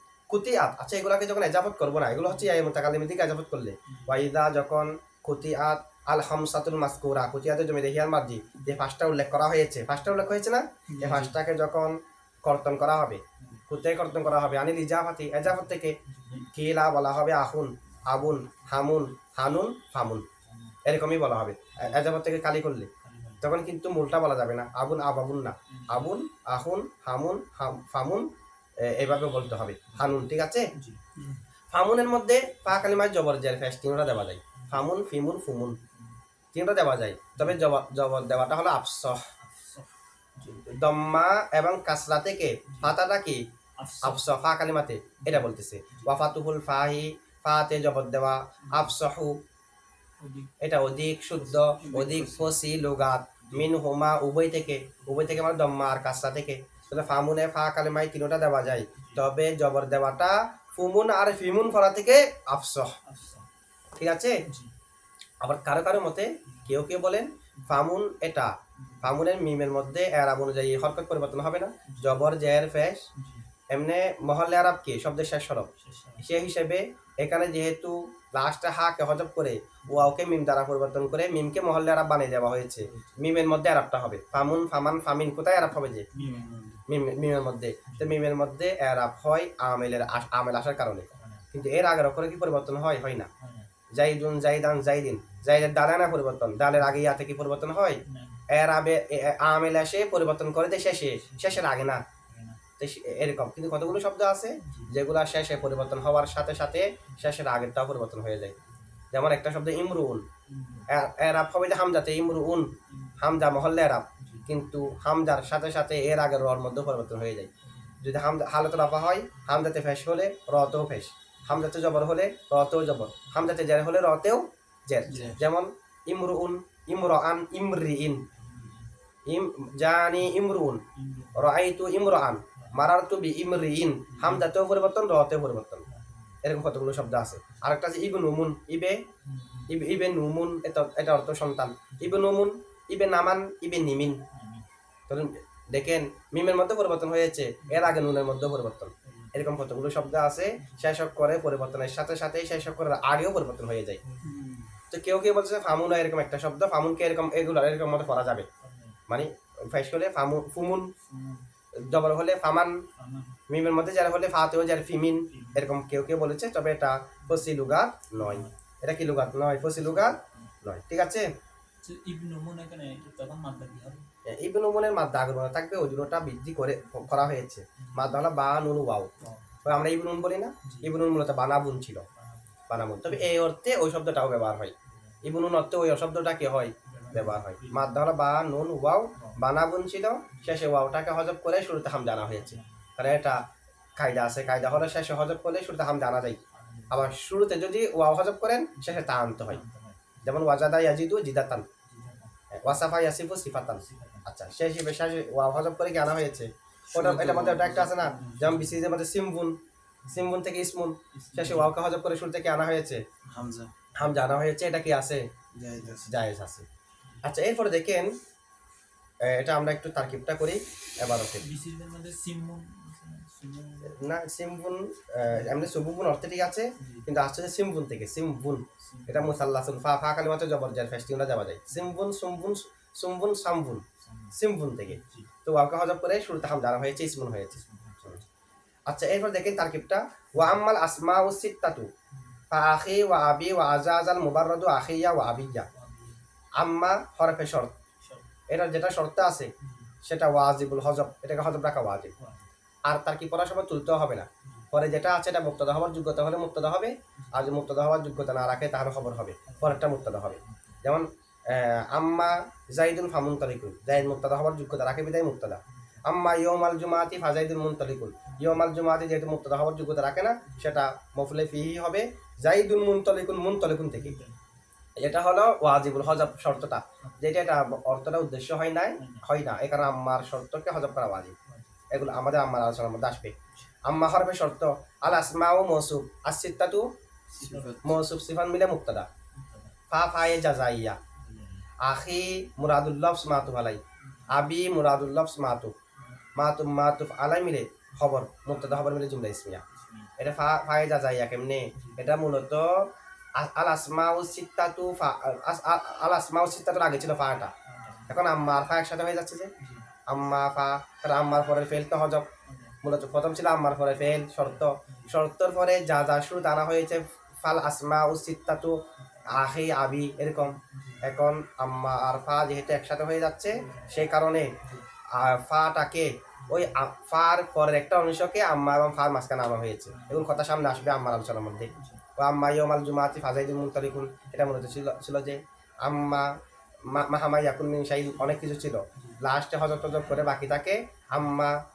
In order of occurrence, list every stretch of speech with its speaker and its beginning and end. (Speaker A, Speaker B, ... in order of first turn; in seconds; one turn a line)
Speaker A: 0.3-20.2
Speaker B: 2.2-2.5
Speaker B: 3.9-4.2
Speaker C: 10.9-11.3
Speaker B: 13.4-13.6
Speaker B: 15.4-16.5
Speaker B: 20.4-20.8
Speaker A: 20.8-22.9
Speaker B: 21.8-22.0
Speaker B: 23.0-23.5
Speaker A: 23.4-28.3
Speaker B: 25.7-26.0
Speaker A: 28.8-30.7
Speaker B: 29.9-31.0
Speaker A: 31.7-35.8
Speaker B: 32.7-33.0
Speaker B: 34.5-34.9
Speaker B: 35.8-36.2
Speaker A: 36.5-39.2
Speaker B: 37.4-37.6
Speaker B: 39.4-40.7
Speaker A: 40.5-43.4
Speaker B: 42.7-43.0
Speaker B: 43.8-44.2
Speaker A: 44.0-49.4
Speaker B: 45.2-46.2
Speaker B: 48.6-48.9
Speaker B: 50.2-50.5
Speaker A: 50.6-63.0
Speaker C: 51.6-52.5
Speaker B: 53.4-53.7
Speaker B: 55.0-55.5
Speaker B: 56.8-57.1
Speaker B: 59.0-59.2
Speaker B: 63.0-63.5
Speaker A: 64.0-64.4
Speaker B: 64.5-64.7
Speaker A: 65.4-73.1
Speaker B: 66.5-66.7
Speaker B: 68.8-69.1
Speaker B: 71.9-72.2
Speaker B: 73.1-73.5
Speaker A: 73.7-75.7
Speaker B: 75.8-76.2
Speaker A: 76.2-86.1
Speaker B: 79.8-80.1
Speaker B: 82.8-83.2
Speaker B: 86.1-86.6
Speaker C: 86.2-86.8
Speaker A: 86.9-93.3
Speaker B: 87.8-88.2
Speaker B: 91.1-91.5
Speaker B: 93.4-93.7
Speaker A: 93.9-102.0
Speaker B: 98.0-98.4
Speaker B: 101.2-101.6
Speaker B: 102.2-102.6
Speaker A: 102.8-108.6
Speaker B: 104.6-104.9
Speaker B: 108.6-109.0
Speaker A: 109.1-110.2
Speaker B: 110.5-110.9
Speaker A: 110.9-117.5
Speaker B: 112.9-113.5
Speaker B: 114.2-114.5
Speaker B: 117.6-118.0
Speaker A: 118.0-128.2
Speaker B: 125.0-125.4
Speaker C: 125.1-125.4
Speaker B: 128.3-128.9
Speaker A: 129.3-130.8
Speaker B: 130.9-131.5
Speaker A: 131.3-135.8
Speaker B: 132.5-132.9
Speaker B: 134.1-134.5
Speaker B: 135.9-136.4
Speaker A: 136.4-139.0
Speaker B: 139.2-139.7
Speaker A: 139.7-144.2
Speaker B: 141.9-142.2
Speaker B: 144.3-144.7
Speaker A: 145.1-154.0
Speaker B: 147.7-148.0
Speaker B: 149.0-149.6
Speaker B: 150.6-150.9
Speaker B: 154.0-154.3
Speaker C: 154.2-154.7
Speaker A: 154.9-158.5
Speaker B: 158.6-159.0
Speaker A: 159.1-160.9
Speaker B: 161.1-161.4
Speaker A: 161.8-162.8
Speaker B: 162.9-163.4
Speaker A: 163.5-171.3
Speaker B: 165.3-165.7
Speaker B: 168.1-168.5
Speaker B: 169.2-170.5
Speaker B: 171.8-174.1
Speaker A: 174.2-182.1
Speaker B: 177.0-178.1
Speaker B: 179.2-179.8
Speaker B: 180.6-180.9
Speaker B: 182.1-183.3
Speaker A: 182.7-193.4
Speaker B: 184.8-185.2
Speaker B: 186.8-188.0
Speaker B: 190.3-190.6
Speaker B: 192.3-192.9
Speaker A: 194.0-196.4
Speaker B: 196.5-197.1
Speaker A: 196.9-199.6
Speaker B: 198.8-200.3
Speaker A: 200.2-201.7
Speaker B: 201.8-202.8
Speaker A: 202.5-209.6
Speaker B: 203.5-204.2
Speaker C: 206.9-208.5
Speaker B: 207.5-208.8
Speaker B: 210.0-210.3
Speaker A: 210.1-213.0
Speaker B: 211.1-211.7
Speaker C: 213.2-213.7
Speaker A: 213.9-215.2
Speaker C: 215.5-216.2
Speaker A: 216.1-216.7
Speaker A: 217.2-218.1
Speaker A: 219.2-221.5
Speaker B: 221.4-224.0
Speaker A: 223.8-238.2
Speaker B: 225.3-225.7
Speaker B: 226.8-227.1
Speaker B: 228.8-229.4
Speaker B: 234.0-234.3
Speaker B: 234.9-235.3
Speaker B: 237.5-238.3
Speaker A: 238.9-241.9
Speaker B: 242.1-242.4
Speaker A: 242.5-245.7
Speaker B: 245.7-246.2
Speaker A: 246.6-247.7
Speaker B: 248.0-248.3
Speaker A: 248.5-249.5
Speaker B: 249.6-249.9
Speaker A: 250.0-252.1
Speaker B: 252.2-252.5
Speaker A: 252.8-274.2
Speaker B: 254.4-254.7
Speaker B: 257.2-257.6
Speaker B: 259.4-260.8
Speaker B: 265.7-266.0
Speaker B: 268.3-268.6
Speaker B: 270.5-270.8
Speaker B: 273.9-274.6
Speaker A: 275.0-281.3
Speaker B: 279.0-279.2
Speaker B: 281.4-282.2
Speaker A: 281.9-286.9
Speaker B: 287.3-288.0
Speaker C: 287.4-287.9
Speaker A: 287.8-289.1
Speaker B: 289.3-289.8
Speaker A: 289.9-291.0
Speaker B: 291.1-291.7
Speaker A: 291.8-295.7
Speaker B: 294.0-294.3
Speaker B: 296.0-296.2
Speaker A: 296.4-299.6
Speaker B: 299.7-300.1
Speaker A: 300.2-307.5
Speaker B: 301.8-302.0
Speaker B: 307.6-308.2
Speaker A: 308.1-309.5
Speaker B: 309.6-309.9
Speaker A: 310.1-312.3
Speaker B: 312.4-312.8
Speaker A: 312.8-324.6
Speaker B: 314.8-315.1
Speaker B: 319.0-319.3
Speaker B: 320.7-321.1
Speaker B: 323.5-324.0
Speaker A: 325.1-341.6
Speaker B: 326.4-326.8
Speaker B: 329.9-330.3
Speaker B: 331.7-332.0
Speaker B: 338.9-339.2